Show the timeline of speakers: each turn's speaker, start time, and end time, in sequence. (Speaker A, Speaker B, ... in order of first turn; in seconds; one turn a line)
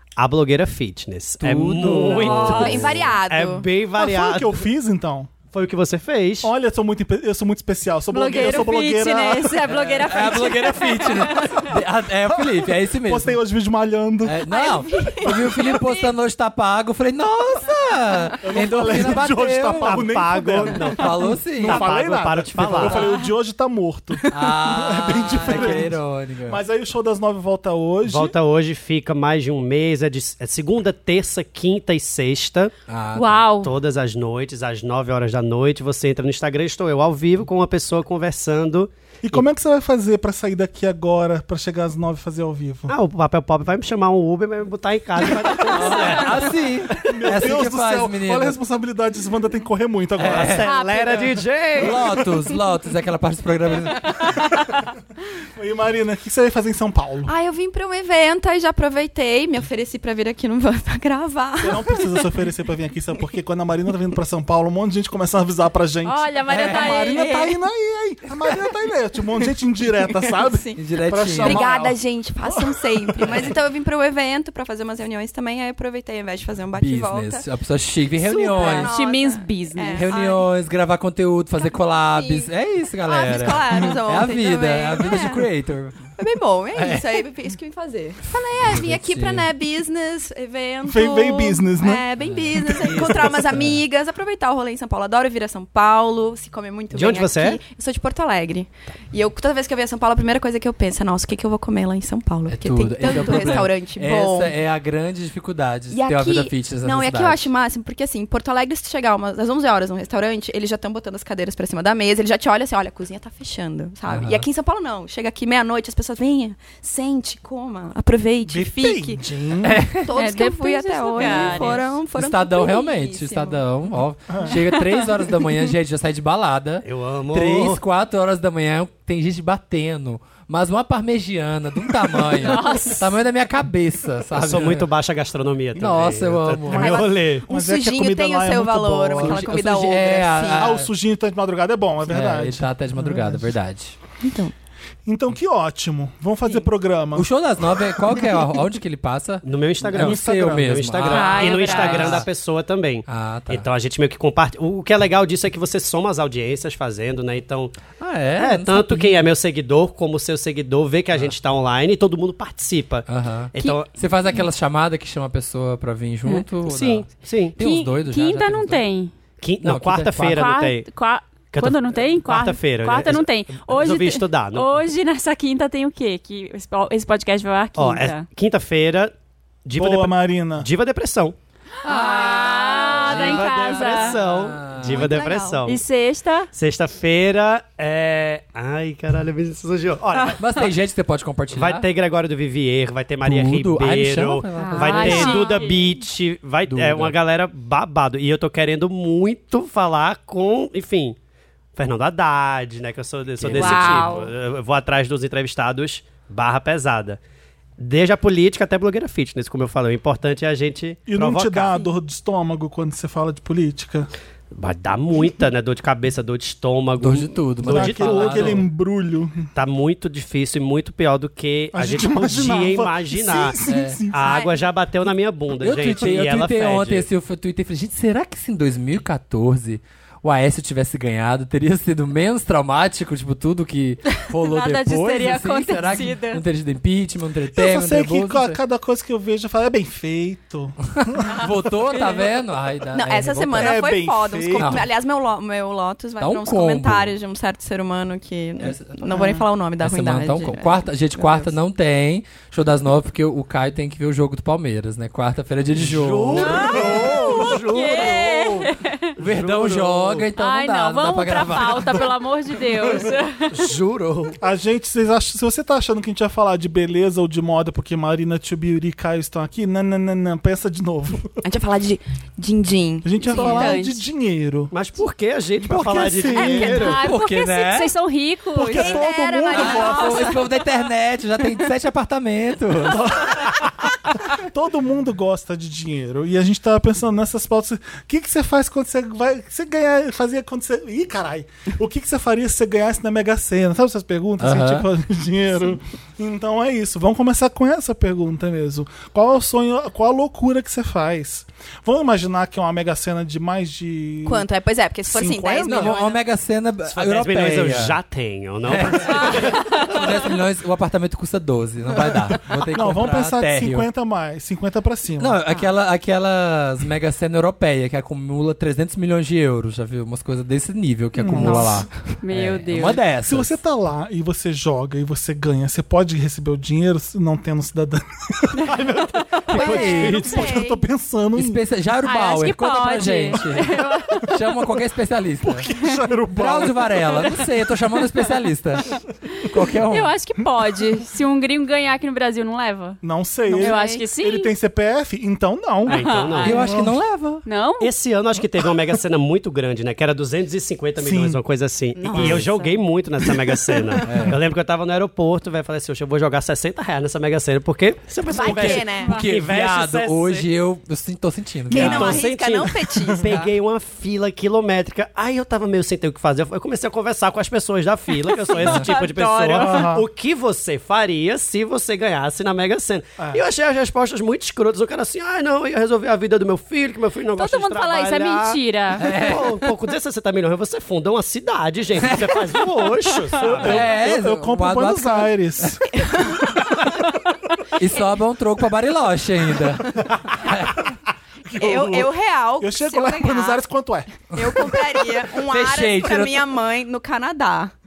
Speaker A: 0.2-4.7
Speaker B: 1.4-3.1
Speaker C: 2.0-2.8
Speaker D: 2.3-3.7
Speaker E: 4.0-5.3
Speaker A: 5.5-6.5
Speaker E: 6.4-9.8
Speaker C: 8.1-11.6
Speaker B: 9.7-13.3
Speaker E: 12.3-14.6
Speaker B: 14.2-20.0
Speaker D: 14.5-16.1
Speaker E: 18.4-28.4
Speaker A: 19.8-23.1
Speaker B: 20.9-21.9
Speaker C: 22.9-23.2
Speaker B: 24.3-26.6
Speaker A: 28.0-32.7
Speaker B: 32.9-33.4
Speaker C: 33.1-33.7
Speaker A: 33.6-39.4
Speaker E: 39.2-42.9
Speaker A: 42.9-46.5
Speaker B: 45.7-48.6
Speaker E: 47.0-50.7
Speaker B: 50.2-50.7
Speaker A: 50.2-52.2
Speaker C: 50.6-51.4
Speaker B: 51.8-54.3
Speaker E: 55.5-57.3
Speaker D: 57.2-62.4
Speaker E: 61.6-73.5
Speaker C: 66.0-67.6
Speaker B: 66.5-67.2
Speaker D: 70.0-70.8
Speaker B: 70.8-71.7
Speaker D: 71.4-77.5
Speaker B: 76.8-79.0
Speaker D: 78.2-80.5
Speaker C: 78.5-80.1
Speaker B: 79.9-86.1
Speaker D: 81.6-82.5
Speaker D: 83.0-85.5
Speaker D: 86.2-104.5
Speaker B: 86.7-87.2
Speaker B: 88.4-89.5
Speaker E: 90.8-92.1
Speaker B: 92.2-93.8
Speaker E: 92.6-93.1
Speaker A: 96.9-97.6
Speaker B: 102.5-107.5
Speaker D: 105.9-119.2
Speaker B: 114.1-114.5
Speaker E: 118.4-119.9
Speaker B: 119.6-120.1
Speaker D: 120.0-123.6
Speaker C: 120.1-121.8
Speaker B: 121.2-134.9
Speaker E: 124.3-124.6
Speaker D: 124.5-125.0
Speaker A: 126.8-127.8
Speaker C: 132.4-133.1
Speaker A: 134.3-136.8
Speaker B: 135.8-137.0
Speaker D: 136.7-140.7
Speaker E: 136.7-143.5
Speaker B: 139.2-140.9
Speaker B: 142.1-144.0
Speaker D: 144.2-144.5
Speaker E: 145.1-147.3
Speaker B: 147.2-152.3
Speaker A: 149.4-163.9
Speaker E: 149.9-150.7
Speaker C: 151.1-152.2
Speaker B: 153.1-153.7
Speaker B: 158.0-159.2
Speaker B: 163.1-168.8
Speaker A: 166.7-167.6
Speaker C: 167.6-169.1
Speaker A: 169.4-170.9
Speaker B: 169.6-170.5
Speaker C: 170.2-178.3
Speaker A: 171.5-174.8
Speaker A: 177.8-179.1
Speaker A: 179.7-181.3
Speaker E: 179.8-180.7
Speaker C: 181.8-184.2
Speaker B: 181.8-185.2
Speaker A: 183.0-185.8
Speaker D: 184.8-185.8
Speaker C: 185.7-186.5
Speaker A: 186.5-190.7
Speaker C: 190.1-190.4
Speaker B: 190.4-191.9
Speaker A: 191.5-201.2
Speaker B: 193.2-195.3
Speaker D: 194.6-195.6
Speaker C: 194.7-195.9
Speaker B: 196.7-197.2
Speaker A: 201.8-207.2
Speaker C: 203.5-204.3
Speaker D: 203.6-204.1
Speaker A: 207.8-211.8
Speaker E: 211.1-214.1
Speaker A: 214.5-218.6
Speaker B: 217.0-218.7
Speaker E: 217.6-219.5
Speaker A: 219.6-227.1
Speaker E: 221.7-224.5
Speaker B: 223.7-224.0
Speaker D: 224.2-224.6
Speaker B: 225.6-238.6
Speaker C: 234.4-236.4
Speaker E: 237.5-241.7
Speaker B: 240.9-243.9
Speaker D: 242.9-251.5
Speaker E: 243.5-244.8
Speaker B: 244.5-244.9
Speaker B: 246.2-247.1
Speaker B: 248.6-256.7
Speaker A: 255.8-260.3
Speaker C: 256.4-259.1
Speaker E: 256.5-257.7
Speaker B: 259.2-262.0
Speaker C: 260.4-263.5
Speaker A: 263.5-264.4
Speaker E: 264.4-271.3
Speaker D: 271.4-273.8
Speaker E: 273.0-274.7
Speaker C: 273.3-274.1
Speaker A: 274.7-276.9
Speaker E: 275.6-277.0
Speaker D: 276.4-277.1
Speaker B: 276.6-277.9
Speaker C: 276.6-279.1
Speaker E: 278.6-280.4
Speaker D: 278.6-280.5
Speaker B: 279.5-283.2
Speaker E: 282.9-304.5
Speaker B: 294.4-294.9
Speaker D: 304.2-306.2
Speaker E: 305.1-306.0
Speaker B: 305.7-308.0
Speaker A: 306.9-309.8
Speaker B: 308.7-313.9
Speaker C: 309.4-309.9
Speaker E: 312.4-315.4
Speaker B: 315.2-323.6
Speaker E: 321.2-321.8
Speaker D: 321.4-321.9
Speaker C: 322.2-323.0
Speaker E: 323.2-331.6
Speaker C: 328.5-329.6
Speaker D: 329.5-330.8
Speaker B: 329.5-330.3
Speaker A: 329.8-330.5
Speaker B: 331.4-335.7
Speaker C: 332.1-334.3
Speaker E: 335.4-337.4
Speaker B: 336.4-340.1
Speaker C: 339.9-343.0
Speaker E: 343.0-347.0
Speaker D: 343.5-344.1
Speaker C: 343.6-344.5
Speaker A: 345.9-346.7
Speaker C: 345.9-346.6
Speaker B: 346.4-347.4
Speaker C: 347.4-347.9
Speaker A: 347.8-360.5
Speaker E: 351.0-351.4
Speaker C: 351.9-352.8
Speaker D: 352.1-352.6
Speaker B: 354.1-354.4
Speaker D: 358.3-359.2
Speaker B: 358.3-362.3
Speaker C: 359.0-359.3
Speaker D: 361.7-363.3
Speaker A: 361.7-383.9
Speaker C: 368.3-369.9
Speaker E: 369.6-370.1
Speaker C: 377.4-379.1
Speaker B: 379.0-379.6
Speaker B: 382.0-382.5
Speaker B: 383.4-385.4
Speaker E: 383.4-385.9
Speaker D: 385.9-386.9
Speaker B: 387.8-390.9
Speaker E: 391.5-394.2
Speaker D: 391.5-393.6
Speaker B: 394.3-394.6
Speaker D: 394.4-397.7
Speaker B: 395.3-396.4